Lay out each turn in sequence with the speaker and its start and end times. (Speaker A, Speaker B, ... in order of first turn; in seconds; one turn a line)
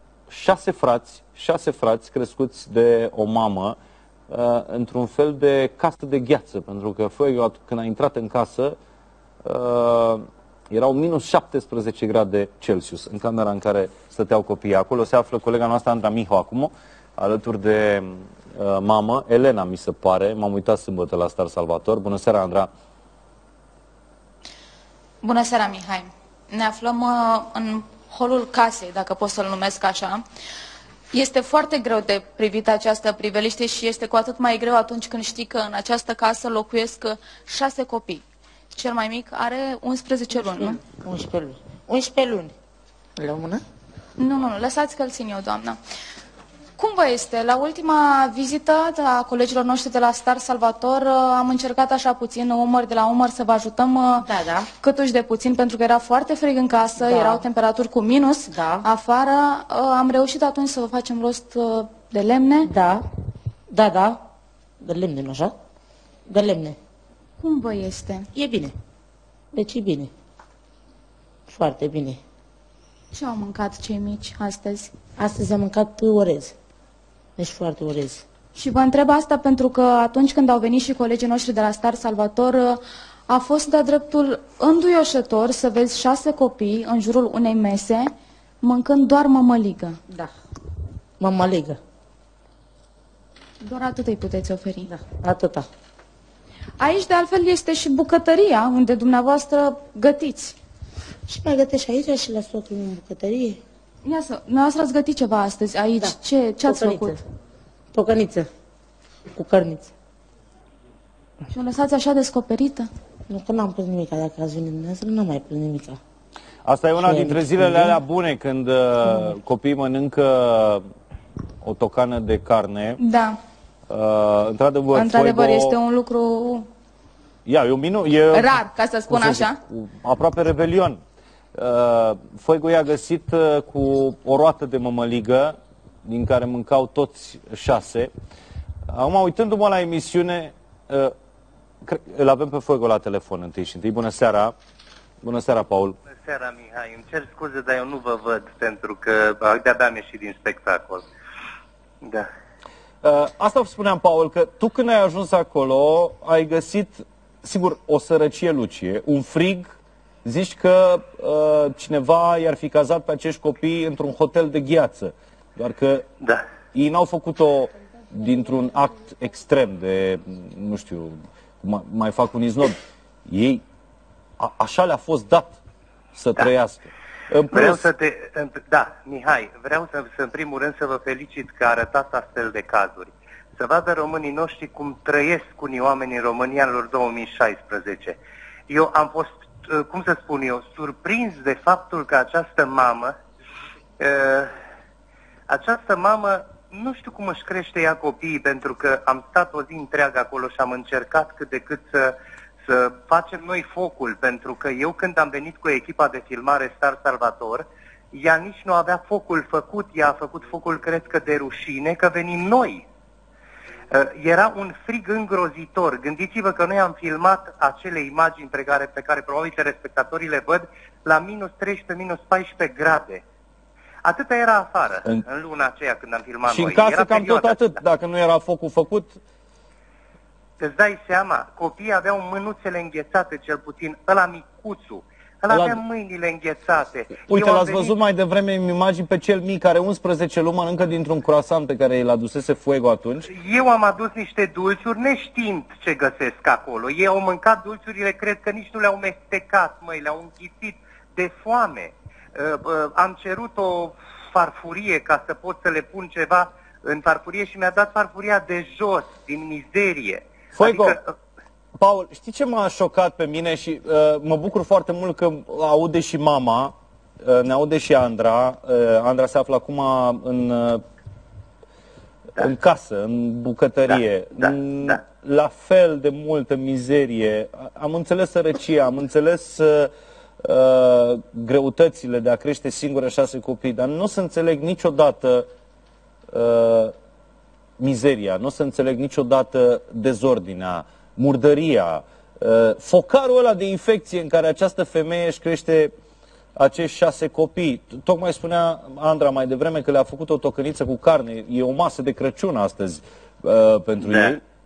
Speaker A: 0.3-3.8
Speaker A: 4.3-8.8
Speaker A: 9.4-22.7
Speaker B: 25.2-30.2
Speaker B: 31.1-40.8
Speaker C: 40.3-42.5
Speaker C: 43.2-43.6
Speaker B: 44.2-45.8
Speaker B: 46.8-54.3
Speaker C: 54.2-54.7
Speaker B: 54.8-62.7
Speaker C: 57.0-57.4
Speaker C: 58.5-58.9
Speaker C: 62.6-63.0
Speaker C: 63.7-64.2
Speaker C: 64.8-65.5
Speaker C: 66.3-66.8
Speaker B: 67.4-68.3
Speaker C: 68.3-68.7
Speaker C: 69.5-70.1
Speaker C: 71.5-72.2
Speaker B: 73.1-74.9
Speaker C: 75.2-76.5
Speaker C: 77.4-78.2
Speaker B: 78.5-88.1
Speaker B: 88.6-90.0
Speaker C: 91.2-91.8
Speaker B: 93.6-94.9
Speaker C: 94.8-95.7
Speaker B: 96.8-100.5
Speaker C: 101.3-103.6
Speaker B: 104.0-107.2
Speaker C: 106.0-107.2
Speaker C: 107.9-108.5
Speaker C: 109.3-109.9
Speaker B: 111.5-112.9
Speaker C: 113.3-116.0
Speaker A: 116.6-120.8
Speaker C: 117.0-118.0
Speaker A: 121.6-123.0
Speaker B: 123.0-123.3
Speaker A: 123.9-125.8
Speaker B: 124.9-126.7
Speaker A: 127.5-131.0
Speaker B: 128.3-129.6
Speaker A: 131.5-138.1
Speaker A: 138.9-141.1
Speaker A: 141.8-144.5
Speaker A: 145.2-145.9
Speaker D: 146.2-151.0
Speaker A: 153.0-166.1
Speaker A: 166.7-173.6
Speaker A: 174.4-175.6
Speaker A: 176.1-177.8
Speaker D: 177.5-188.2
Speaker D: 188.7-193.1
Speaker D: 194.0-194.5
Speaker D: 195.5-212.8
Speaker D: 213.9-223.2
Speaker D: 224.0-227.7
Speaker A: 226.5-229.2
Speaker D: 230.6-237.9
Speaker A: 235.5-235.8
Speaker A: 237.3-243.3
Speaker D: 243.3-261.0
Speaker A: 260.5-261.0
Speaker A: 261.8-270.8
Speaker A: 272.4-279.9
Speaker D: 273.9-275.0
Speaker A: 280.4-285.5
Speaker A: 286.3-286.9
Speaker A: 287.8-295.9
Speaker A: 296.6-304.4
Speaker D: 304.0-304.4